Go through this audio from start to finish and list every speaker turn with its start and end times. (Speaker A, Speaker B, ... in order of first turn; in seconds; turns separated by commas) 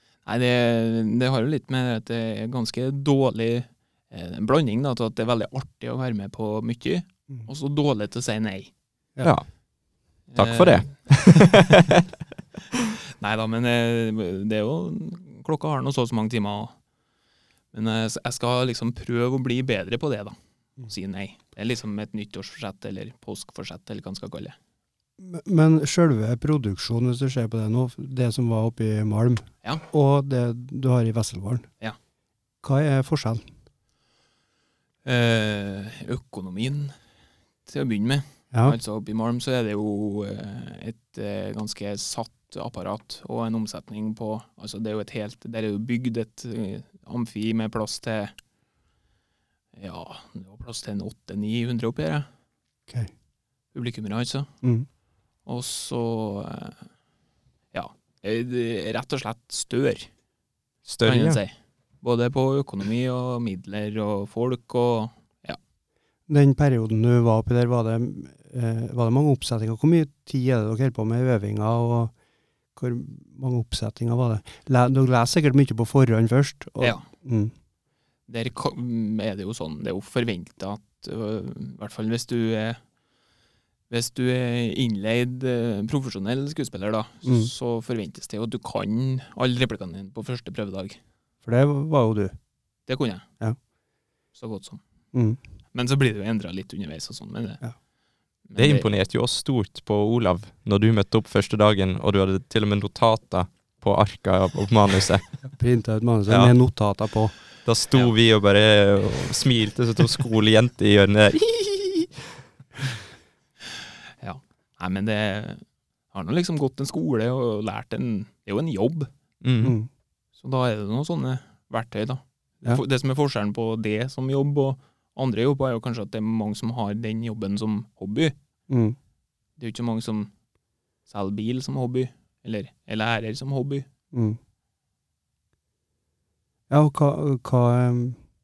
Speaker A: 0.2-8.7, Speaker B: 9.2-9.5, Speaker B: 10.2-12.0, Speaker A: 10.3-11.6, Speaker A: 13.2-16.7, Speaker A: 17.7-20.3, Speaker A: 20.9-24.6, Speaker C: 25.2-31.7, Speaker C: 32.6-33.5, Speaker A: 35.0-36.9, Speaker A: 37.6-48.3, Speaker C: 38.5-38.8, Speaker A: 49.8-52.3, Speaker A: 53.7-54.5, Speaker A: 55.4-56.8, Speaker A: 57.7-60.1, Speaker B: 60.9-61.4, Speaker A: 61.0-65.6, Speaker C: 66.3-72.1, Speaker C: 72.8-77.5, Speaker A: 76.8-77.0, Speaker A: 78.3-82.8, Speaker A: 83.9-91.0, Speaker C: 87.2-87.5, Speaker C: 91.4-92.3, Speaker A: 92.9-93.3, Speaker A: 94.3-94.8, Speaker C: 95.1-95.4, Speaker A: 95.7-97.6, Speaker A: 98.5-98.9, Speaker B: 98.5-105.3, Speaker C: 105.5-107.3, Speaker B: 106.3-106.5, Speaker B: 107.6-112.2, Speaker A: 114.2-119.1, Speaker B: 119.4-119.8, Speaker C: 119.6-119.9, Speaker A: 120.4-128.3, Speaker C: 128.7-129.0, Speaker A: 129.6-130.3, Speaker A: 131.1-133.8, Speaker C: 134.1-134.4, Speaker C: 136.7-138.2